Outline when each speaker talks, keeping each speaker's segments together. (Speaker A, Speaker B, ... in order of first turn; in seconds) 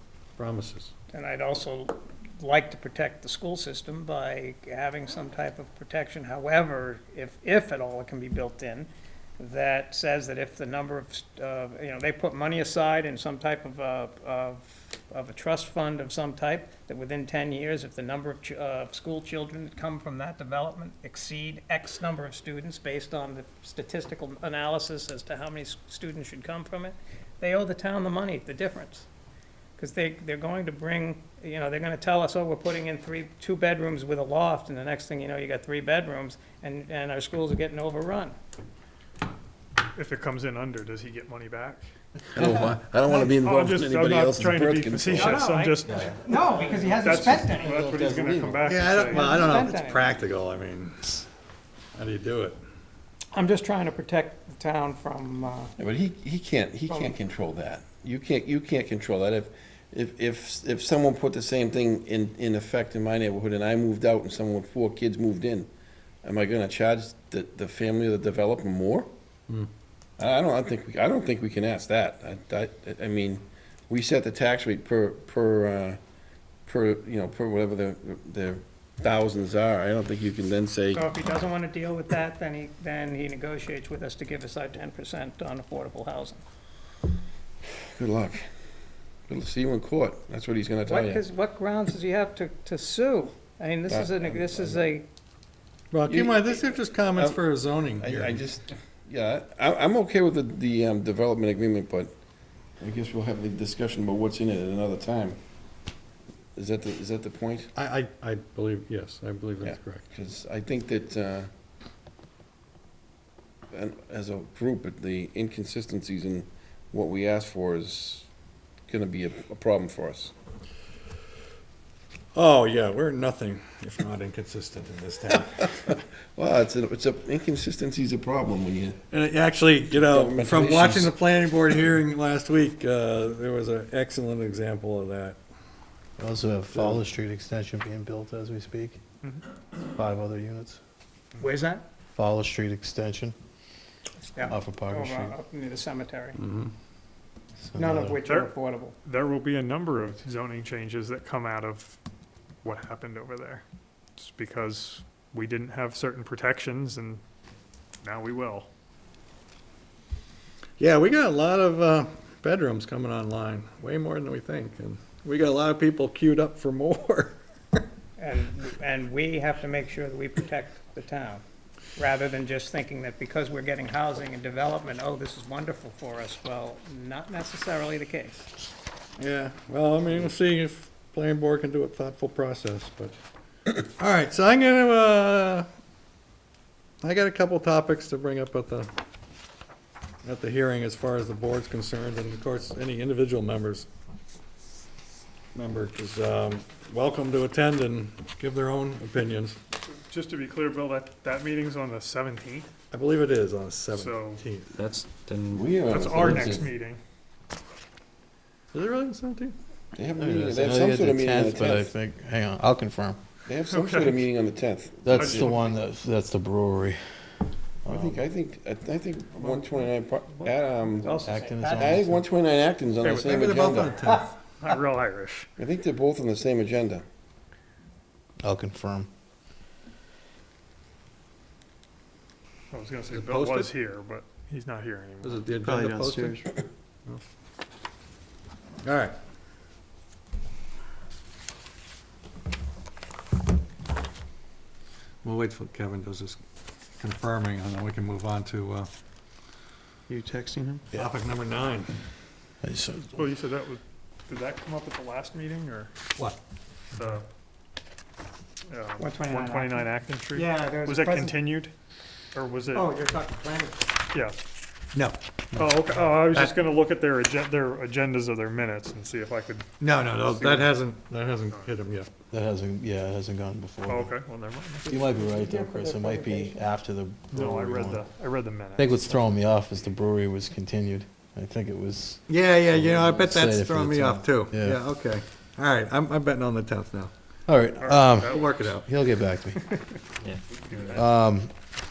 Speaker A: 0.4-0.9, 48.6-51.2, 52.0-52.6, 95.9-98.4, 107.8-110.0, 122.3-125.8, 129.1-135.4, 146.3-146.7, 160.8-167.4, 179.2-183.2, 183.8-185.7, 187.0-188.9, 190.2-193.9, 195.5-199.6, 202.9-204.8, 208.7-209.6, 223.0-224.3, 233.1-233.7, 235.2-237.2, 238.8-239.2, 245.2-246.4, 247.0-248.9, 250.9-251.9, 269.8-272.1, 282.3-287.1, 288.2-288.9
Speaker B: 1.1-29.1, 29.8-38.3, 45.1-47.8, 49.0-50.1, 53.4-55.7, 81.0-86.4, 90.9-95.0, 141.4-141.8, 144.3-146.4, 147.8-148.9, 168.3-171.4, 171.9-178.4, 221.0-221.9, 259.0-261.3, 262.7-263.8, 274.8-276.6
Speaker C: 40.0-41.8, 43.0-46.3, 47.0-49.3, 148.2-148.5, 149.0-152.0, 152.6-153.6, 154.2-157.2, 158.0-158.7, 199.8-202.7, 203.9-204.4, 205.9-207.0, 213.7-214.2, 215.2-215.7, 223.0-223.5, 224.6-225.5, 232.7-235.4, 253.0-255.9, 256.9-257.2, 258.7-261.7, 262.3-262.9, 264.1-264.4, 265.6-270.8, 273.9-274.9, 277.3-279.0, 287.8-288.9, 289.6-291.1
Speaker D: 42.3-46.0, 47.5-48.9, 55.8-65.7, 66.2-69.1, 70.2-76.0, 76.7-81.0, 87.9-88.4, 89.3-91.2, 93.9-94.8, 96.1-96.5, 98.0-102.1, 102.8-105.4, 106.5-107.7, 109.6-111.5, 113.7-118.3, 118.9-120.3, 125.8-129.0, 129.9-131.1, 205.5-206.7, 209.9-211.9, 213.4-215.5, 217.9-221.2, 221.8-224.0, 225.6-227.0
Speaker E: 136.2-139.0, 139.8-140.8, 142.2-143.3, 144.5-145.3, 147.6-148.2, 210.2-213.2, 215.0-217.3, 217.8-218.2, 221.2-222.2, 228.4-229.1, 252.6-253.1, 272.3-274.1, 274.8-278.1, 278.8-284.8, 287.5-289.7, 290.9-291.5
Speaker F: 204.7-206.4, 235.6-236.5, 250.1-250.8, 290.2-291.0